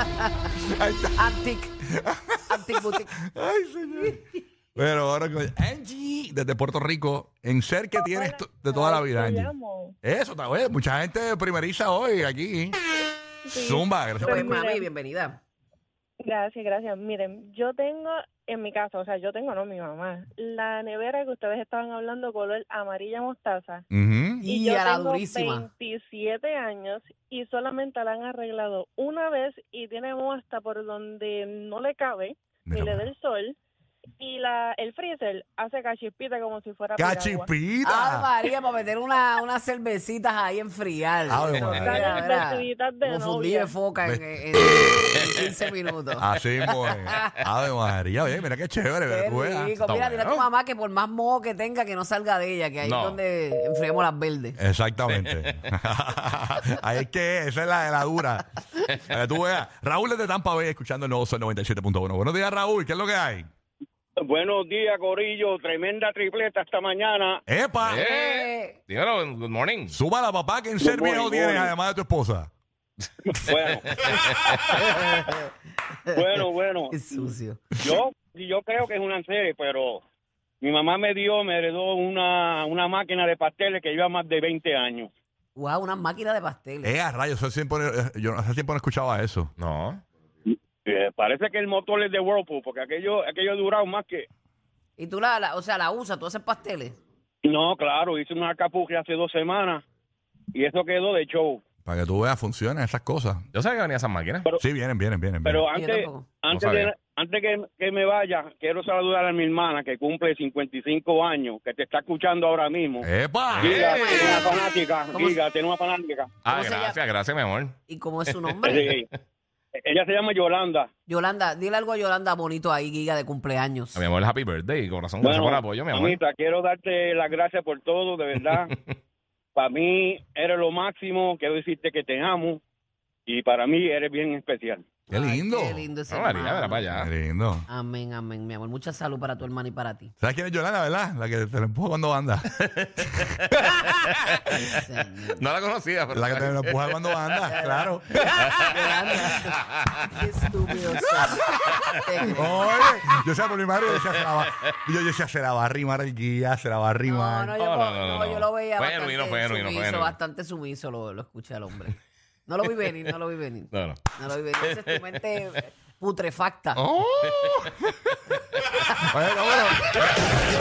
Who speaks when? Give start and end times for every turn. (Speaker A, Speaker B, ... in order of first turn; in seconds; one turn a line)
Speaker A: 0.6-1.2
Speaker B: 1.2-1.8
Speaker A: 1.9-4.2
Speaker B: 2.5-3.1
Speaker A: 4.8-9.5
Speaker C: 8.0-9.9
Speaker A: 10.0-12.8
Speaker C: 13.5-14.9
Speaker A: 13.5-14.6
Speaker B: 14.2-15.4
Speaker C: 16.2-23.8
Speaker A: 23.9-24.5
Speaker B: 24.4-25.7
Speaker C: 24.5-33.6
Speaker A: 32.7-33.1
Speaker C: 34.2-37.5
Speaker A: 37.0-38.3
Speaker B: 37.8-46.2
Speaker A: 41.3-42.1
Speaker C: 41.5-43.7
Speaker A: 46.2-50.3
Speaker B: 46.8-47.4
Speaker B: 49.1-54.6
Speaker D: 50.2-50.5
Speaker D: 52.8-53.2
Speaker A: 54.6-63.5
Speaker D: 55.1-55.6
Speaker E: 64.2-67.4
Speaker A: 67.5-68.0
Speaker D: 67.8-70.0
Speaker B: 67.9-68.8
Speaker A: 69.9-72.5
Speaker E: 70.8-71.7
Speaker E: 73.3-73.9
Speaker D: 74.0-74.3
Speaker B: 74.8-75.5
Speaker B: 76.1-77.8
Speaker E: 76.2-77.0
Speaker E: 77.8-80.0
Speaker E: 80.6-85.1
Speaker B: 85.6-87.0
Speaker A: 86.8-89.5
Speaker D: 89.6-90.0
Speaker E: 90.5-94.3
Speaker B: 95.0-97.0
Speaker E: 97.4-99.8
Speaker E: 100.5-101.6
Speaker A: 101.8-103.5
Speaker D: 103.5-104.5
Speaker A: 104.6-105.7
Speaker E: 105.5-113.1
Speaker B: 105.7-106.3
Speaker D: 106.5-106.9
Speaker A: 113.0-113.8
Speaker D: 113.5-114.3
Speaker E: 113.6-116.3
Speaker B: 113.8-115.4
Speaker D: 116.5-117.8
Speaker B: 116.5-117.0
Speaker B: 117.9-118.9
Speaker D: 118.3-118.8
Speaker E: 118.6-119.1
Speaker E: 119.8-120.9
Speaker B: 121.1-124.1
Speaker D: 124.0-126.2
Speaker E: 125.2-128.7
Speaker E: 129.6-132.6
Speaker E: 133.3-134.8
Speaker B: 135.1-136.9
Speaker A: 135.1-135.9
Speaker D: 136.1-137.1
Speaker A: 136.9-137.7
Speaker B: 137.7-140.1
Speaker A: 140.2-142.5
Speaker D: 142.6-144.6
Speaker B: 144.5-145.4
Speaker D: 145.3-147.3
Speaker A: 146.1-148.8
Speaker B: 147.4-152.8
Speaker D: 148.4-149.9
Speaker A: 151.2-157.5
Speaker D: 151.7-152.3
Speaker D: 153.9-154.5
Speaker B: 157.1-161.9
Speaker D: 157.5-160.2
Speaker B: 162.5-166.8
Speaker D: 162.8-163.2
Speaker D: 163.7-164.1
Speaker D: 164.6-165.5
Speaker A: 166.8-167.9
Speaker D: 167.2-167.7
Speaker A: 169.1-169.9